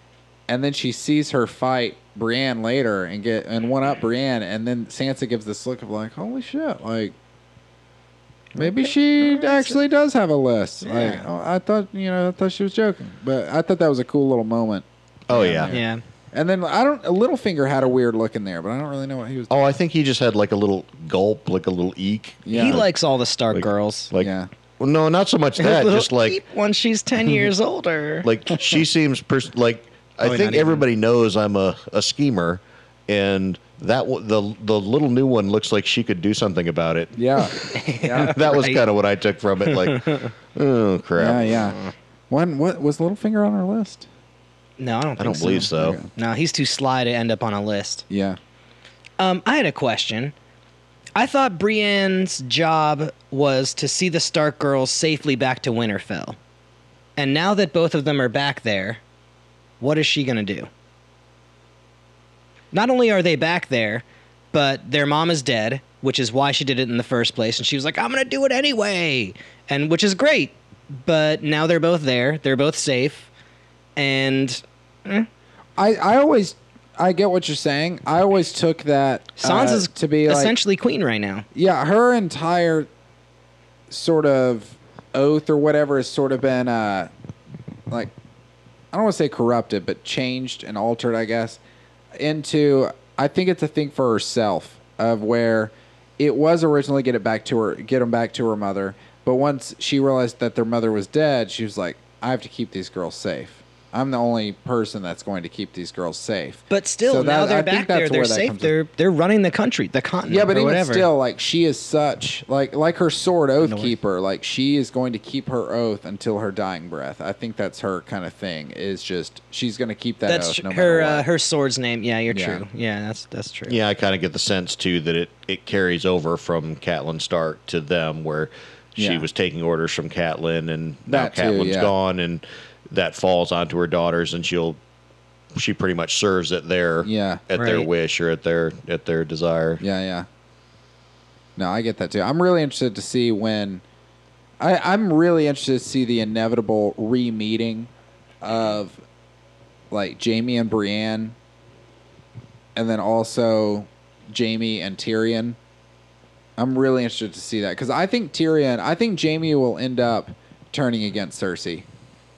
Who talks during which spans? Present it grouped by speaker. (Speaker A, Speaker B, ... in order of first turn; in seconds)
Speaker A: 0.5-7.1, 8.6-19.7, 22.4-22.8, 24.2-24.5, 37.1-38.3, 41.2-41.8, 42.3-44.1, 45.5-46.1, 48.1-48.4, 75.8-80.5, 81.5-82.9, 83.9-87.1, 88.9-91.6, 92.2-108.7, 110.3-121.2, 122.3-122.6, 129.0-129.3, 131.1-131.9, 137.0-137.4, 139.8-140.2, 141.6-143.8, 144.6-147.9, 148.4-149.0, 149.9-151.3, 152.7-155.6, 156.6-161.9
Speaker B: 8.6-9.7, 10.8-11.2, 15.7-16.0, 22.5-24.1, 25.6-28.6, 30.2-30.8, 37.6-38.8, 39.6-40.3, 44.8-48.0, 49.2-50.3, 51.1-56.4, 57.2-59.0, 59.8-60.7, 62.7-73.3, 74.0-75.3, 79.4-81.4, 106.7-111.1, 113.6-113.9, 120.2-123.8, 137.5-137.9
Speaker C: 15.3-15.7, 19.5-22.9, 23.5-26.4, 28.2-41.7, 45.2-46.0, 123.7-134.8, 135.5-139.8